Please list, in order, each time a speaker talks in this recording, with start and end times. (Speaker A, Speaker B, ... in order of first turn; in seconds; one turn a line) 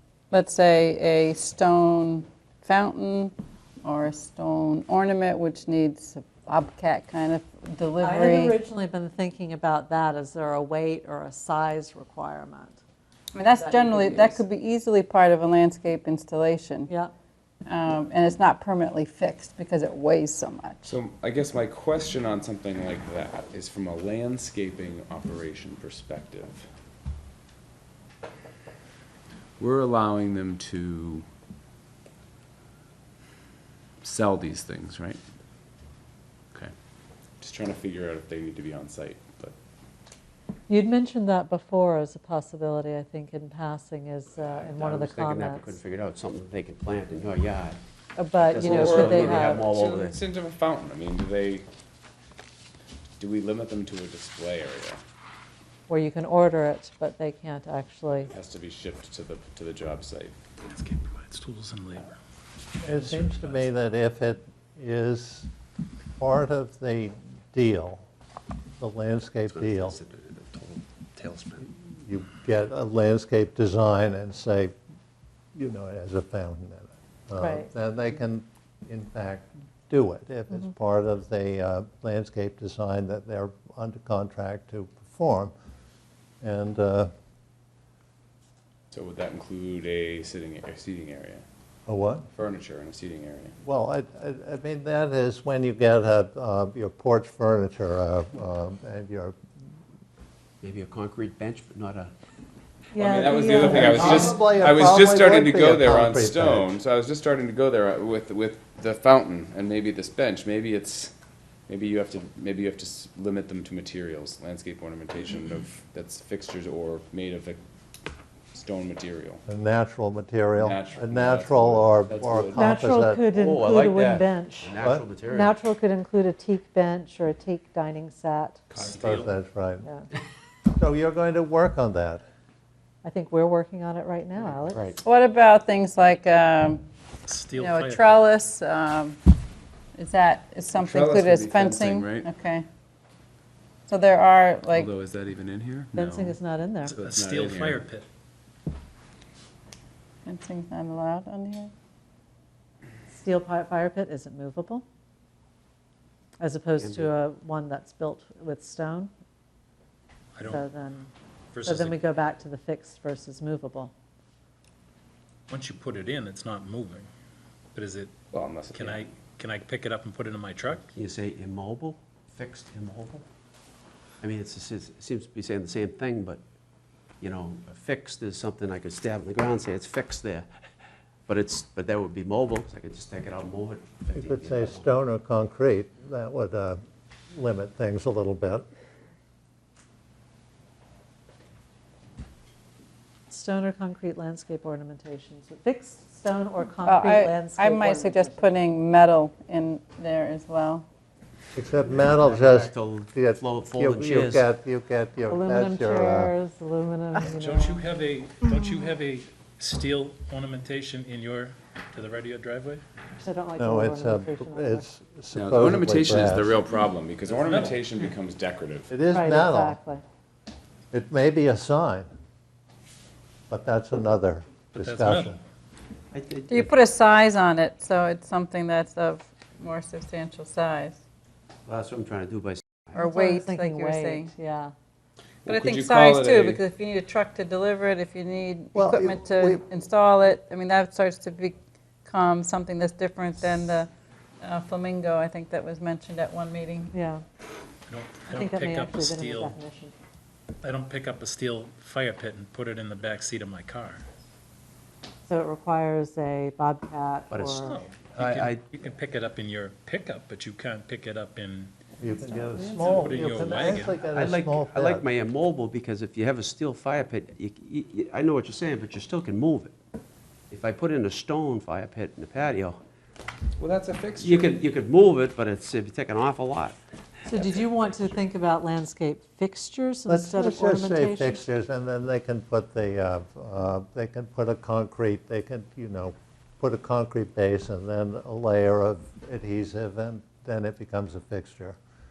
Speaker A: 0.3-8.6
Speaker B: 8.0-12.8
Speaker A: 13.3-16.9
Speaker B: 13.5-14.4
Speaker A: 17.6-20.9
Speaker C: 20.8-26.6
Speaker C: 29.6-31.2
Speaker C: 34.0-35.2
Speaker C: 37.4-39.5
Speaker B: 40.7-45.8
Speaker D: 44.6-47.8
Speaker B: 48.1-49.6
Speaker D: 48.4-50.2
Speaker C: 48.6-51.7
Speaker C: 53.2-55.0
Speaker B: 55.9-58.3
Speaker C: 58.3-60.4
Speaker E: 60.7-62.2
Speaker F: 62.8-65.5
Speaker E: 62.9-63.6
Speaker F: 66.2-68.0
Speaker F: 68.8-70.0
Speaker D: 69.5-71.7
Speaker F: 71.9-74.7
Speaker F: 75.5-85.5
Speaker B: 77.4-77.7
Speaker F: 86.4-87.1
Speaker C: 88.9-91.4
Speaker F: 91.8-92.3
Speaker C: 92.3-93.5
Speaker F: 93.6-99.4
Speaker D: 100.6-102.1
Speaker B: 102.9-104.2
Speaker C: 102.9-111.1
Speaker F: 103.5-106.7
Speaker C: 111.7-117.6
Speaker C: 118.5-119.4
Speaker F: 119.5-123.2
Speaker C: 120.6-122.6
Speaker B: 122.6-124.7
Speaker D: 123.3-125.6
Speaker F: 124.8-125.0
Speaker B: 125.3-128.6
Speaker C: 128.7-129.0
Speaker E: 128.7-129.3
Speaker F: 128.9-129.9
Speaker F: 130.7-132.2
Speaker B: 133.0-134.9
Speaker D: 134.4-135.0
Speaker A: 135.0-136.8
Speaker E: 137.3-138.1
Speaker A: 137.6-139.2
Speaker A: 139.9-142.7
Speaker C: 140.8-142.3
Speaker A: 143.9-144.9
Speaker C: 144.7-147.8
Speaker B: 145.9-147.0
Speaker E: 147.0-148.1
Speaker A: 150.2-151.7
Speaker B: 153.1-154.8
Speaker B: 156.4-159.1
Speaker D: 156.8-157.1
Speaker E: 160.3-160.6
Speaker B: 160.4-161.1
Speaker E: 161.5-162.0
Speaker B: 161.6-163.9
Speaker E: 165.5-167.1
Speaker E: 167.7-168.1
Speaker C: 168.3-169.1
Speaker E: 168.7-170.9
Speaker D: 170.9-173.2
Speaker D: 174.2-176.4
Speaker D: 177.2-180.5
Speaker D: 181.3-184.9
Speaker F: 184.1-186.8
Speaker F: 187.3-188.6
Speaker B: 193.3-198.5
Speaker A: 196.8-200.8
Speaker F: 201.5-206.3
Speaker D: 201.7-204.5
Speaker B: 205.3-207.8
Speaker E: 207.2-212.8
Speaker B: 213.2-214.9
Speaker F: 213.6-216.6
Speaker C: 215.3-218.9
Speaker E: 217.3-217.8
Speaker F: 218.9-219.8
Speaker B: 219.1-220.0
Speaker F: 220.9-222.1
Speaker F: 223.5-225.4
Speaker E: 224.8-225.3
Speaker D: 226.1-226.7
Speaker A: 226.5-231.0
Speaker D: 231.7-233.1
Speaker A: 232.9-234.3
Speaker B: 232.9-234.7
Speaker C: 235.4-236.6
Speaker A: 235.4-246.9
Speaker F: 238.7-239.6
Speaker B: 246.9-247.2
Speaker E: 247.9-249.6
Speaker B: 248.3-249.9
Speaker E: 250.6-254.0
Speaker B: 255.3-257.8
Speaker D: 257.3-258.8
Speaker E: 257.6-261.7
Speaker F: 262.0-265.1
Speaker E: 262.7-264.0
Speaker D: 264.1-269.8
Speaker D: 270.5-272.8
Speaker C: 273.6-274.6
Speaker D: 274.2-276.8
Speaker B: 277.3-281.4
Speaker F: 280.1-291.8